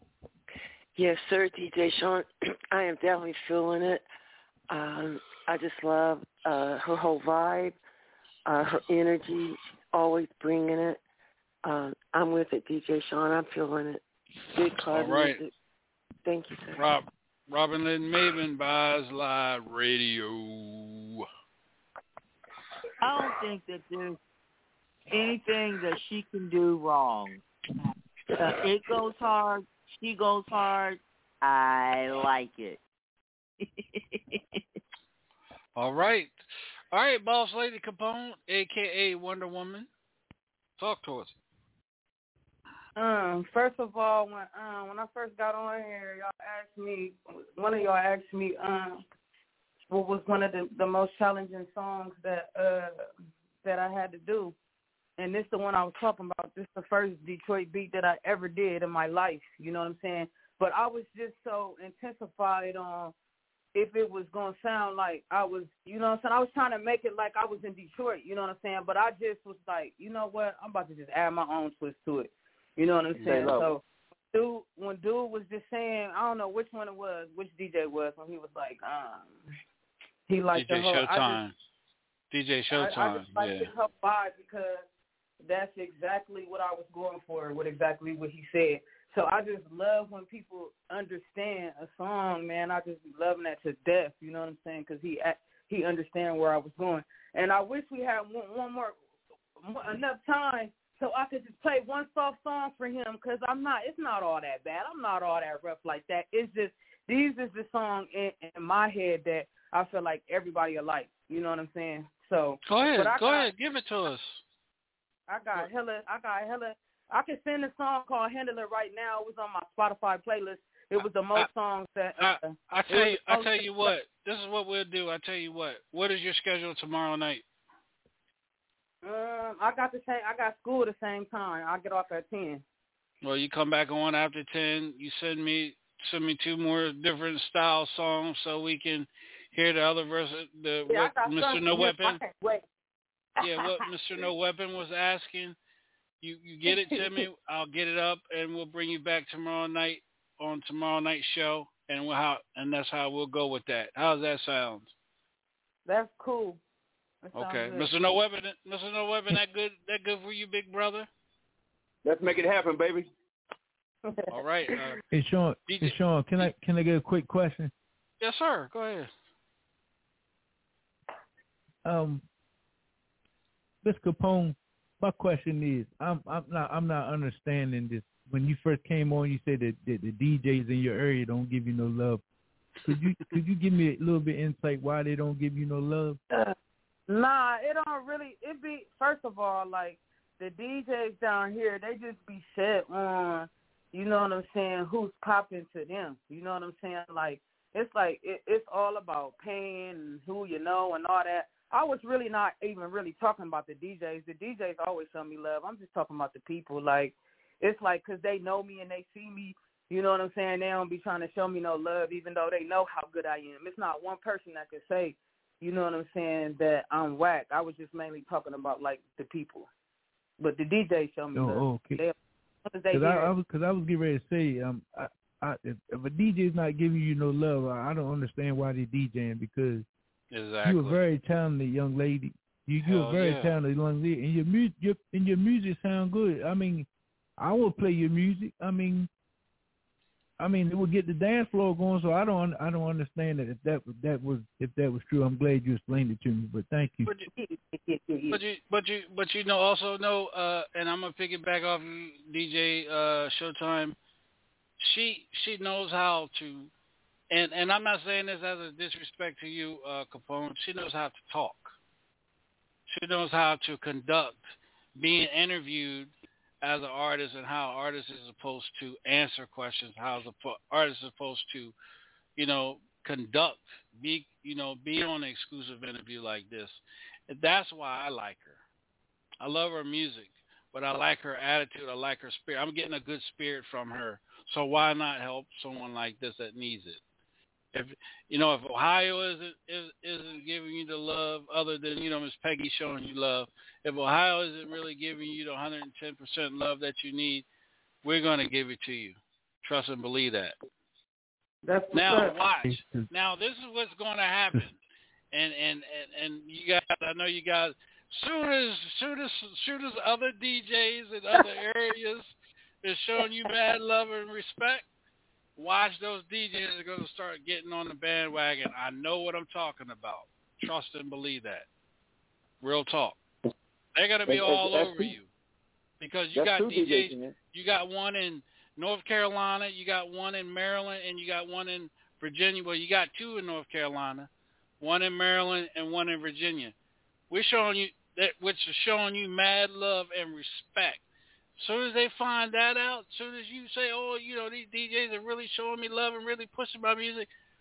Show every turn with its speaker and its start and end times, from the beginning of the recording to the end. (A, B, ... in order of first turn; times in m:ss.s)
0:01.0-0:04.0 A
0:04.7-0:07.8 A
0:08.5-0:11.0 A
0:11.6-0:14.0 A
0:14.5-0:15.5 A
0:14.9-0:15.4 B
0:16.2-0:16.9 A
0:16.8-0:21.3 B
0:23.0-0:24.2 C
0:25.1-0:27.4 C
0:28.4-0:32.8 C
0:33.6-0:34.6 C
0:35.8-0:36.4 B
0:36.9-0:39.9 B
0:40.8-0:41.4 B
0:43.0-0:49.0 D
0:49.9-0:54.6 D
0:55.2-1:03.1 D
1:03.8-1:13.8 D
1:13.2-1:13.6 B
1:13.2-1:13.7 E
1:14.3-1:19.5 D
1:20.3-1:21.4 D
1:20.6-1:21.6 B
1:22.3-1:23.7 B
1:22.7-1:24.8 D
1:25.4-1:39.0 D
1:39.6-1:53.5 D
1:52.7-1:54.4 B
1:55.3-2:03.9 D
2:02.2-2:07.4 B
2:09.0-2:12.6 D
2:13.2-2:22.2 B
2:20.9-2:22.6 D
2:23.4-2:25.6 B
2:23.4-2:23.9 D
2:26.2-2:34.9 B
2:26.7-2:27.2 D
2:35.9-2:36.6 D
2:37.2-2:37.9 D
2:37.3-2:41.1 B
2:42.0-2:43.1 E
2:44.0-2:44.3 D
2:44.3-2:45.0 B
2:45.1-2:47.7 F
2:45.7-2:46.5 B
2:48.2-2:49.1 B
2:51.8-2:52.2 F
2:53.8-3:02.2 F
3:02.8-3:06.2 F
3:06.3-3:06.6 D
3:07.1-3:39.7 D
3:40.4-3:42.2 D
3:41.4-3:42.0 F
3:42.7-3:43.3 D
3:42.9-3:49.9 F
3:50.3-3:51.0 B
3:50.6-3:56.9 F
3:52.8-3:53.6 B
3:57.4-3:59.1 F
4:00.4-4:07.1 F
4:07.4-4:08.4 D
4:08.3-4:14.0 B
4:14.8-4:16.7 B
4:17.3-4:21.7 B
4:22.9-4:31.7 B
4:32.4-4:38.6 B
4:39.4-4:47.0 B
4:47.7-4:57.5 B
4:58.0-5:00.6 B
5:01.6-5:02.4 D
5:01.9-5:04.8 B
5:02.6-5:03.1 F
5:05.3-5:14.9 B
5:15.6-5:21.7 B
5:22.6-5:23.2 B
5:24.0-5:25.3 B
5:24.3-5:25.1 E
5:26.0-5:34.3 B
5:26.3-5:27.4 E
5:34.8-5:36.7 B
5:37.3-5:41.0 B
5:41.6-5:47.3 B